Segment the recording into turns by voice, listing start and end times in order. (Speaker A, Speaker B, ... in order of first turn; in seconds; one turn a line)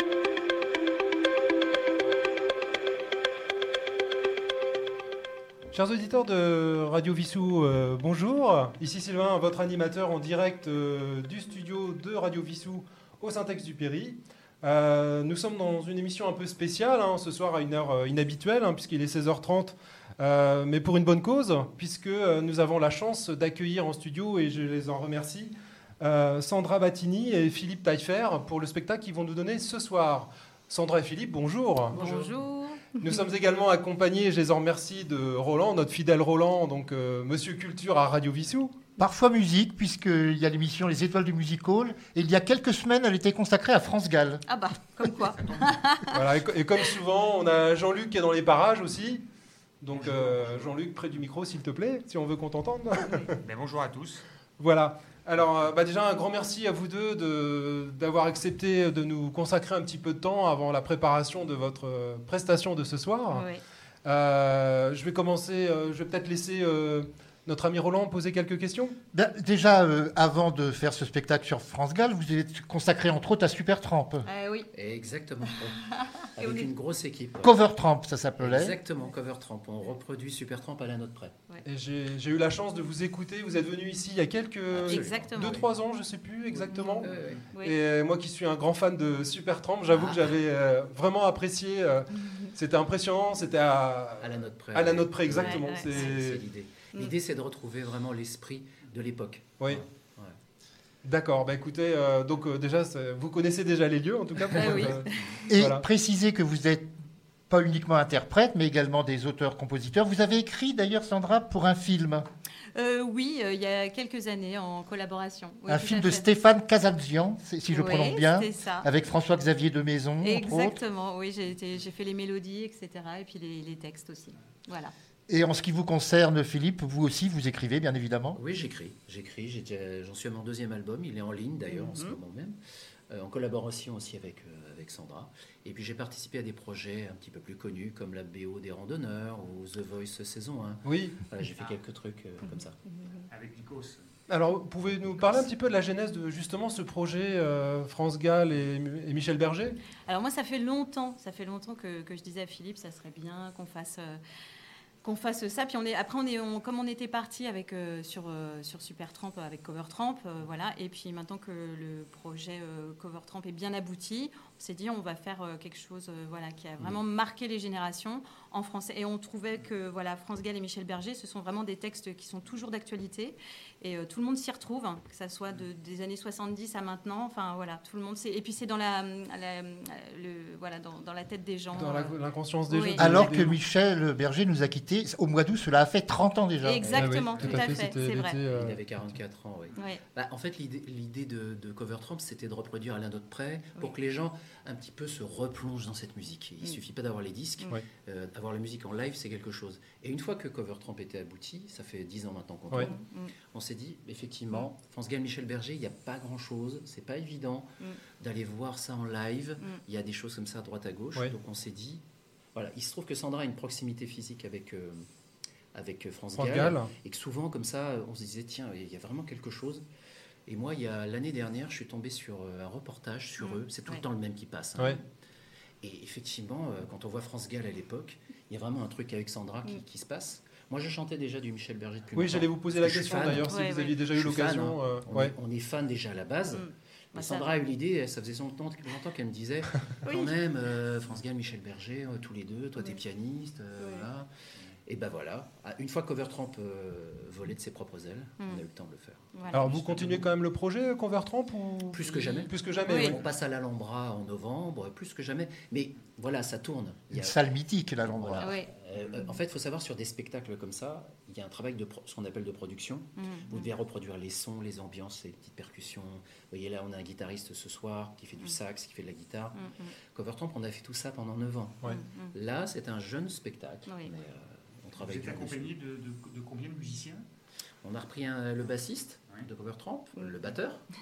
Speaker A: 5.7-32.0
Speaker B: 31.9-33.1
Speaker C: 31.9-32.4
Speaker A: 33.0-38.8
Speaker D: 39.0-44.4
Speaker B: 44.5-46.3
Speaker E: 45.2-45.9
Speaker A: 46.1-49.3
Speaker A: 49.8-53.4
Speaker E: 49.9-50.8
Speaker B: 53.0-53.3
Speaker E: 53.4-54.2
Speaker A: 54.6-63.5
Speaker B: 63.3-63.6
Speaker A: 64.0-69.0
Speaker D: 69.1-74.3
Speaker B: 74.2-74.7
Speaker C: 74.7-77.6
Speaker B: 75.4-76.7
Speaker D: 77.4-78.8
Speaker C: 78.4-81.3
Speaker A: 81.7-96.4
Speaker C: 84.7-85.7
Speaker B: 84.9-85.6
Speaker C: 86.7-87.5
Speaker B: 86.7-87.8
Speaker E: 87.2-87.4
Speaker C: 89.9-90.4
Speaker B: 92.1-92.6
Speaker C: 94.2-100.3
Speaker B: 95.3-96.2
Speaker A: 99.6-99.8
Speaker A: 101.0-105.8
Speaker B: 104.5-105.5
Speaker D: 105.5-106.9
Speaker D: 107.5-112.3
Speaker B: 112.8-116.2
Speaker D: 115.7-120.8
Speaker B: 117.7-118.9
Speaker B: 120.2-124.9
Speaker D: 125.3-128.4
Speaker C: 128.3-132.6
Speaker B: 131.7-132.2
Speaker C: 133.1-142.8
Speaker A: 140.8-141.2
Speaker E: 141.5-141.8
Speaker B: 142.4-143.1
Speaker E: 143.3-144.1
Speaker A: 144.3-149.8
Speaker B: 150.1-154.2
Speaker B: 155.0-182.2
Speaker A: 181.7-183.6
Speaker B: 182.7-183.1
Speaker D: 183.0-186.9
Speaker B: 186.6-188.4
Speaker C: 186.8-212.0
Speaker A: 186.9-189.2
Speaker B: 189.7-190.0
Speaker B: 202.7-203.3
Speaker C: 212.6-215.1
Speaker C: 215.7-219.8
Speaker A: 216.3-216.9
Speaker C: 220.5-225.0
Speaker B: 223.4-224.0
Speaker C: 225.8-244.3
Speaker A: 232.1-235.3
Speaker B: 233.5-234.0
Speaker B: 236.5-237.5
Speaker B: 240.0-240.3
Speaker B: 243.8-244.1
Speaker C: 244.9-250.3
Speaker B: 249.3-249.7
Speaker A: 249.5-253.2
Speaker C: 251.9-257.4
Speaker B: 252.8-253.1
Speaker D: 257.2-258.6
Speaker C: 258.0-269.6
Speaker B: 258.4-258.7
Speaker B: 263.2-263.7
Speaker B: 269.6-269.9
Speaker C: 270.1-275.7
Speaker B: 271.9-272.3
Speaker B: 273.9-274.1
Speaker E: 274.9-277.3
Speaker C: 277.8-280.8
Speaker B: 280.2-280.5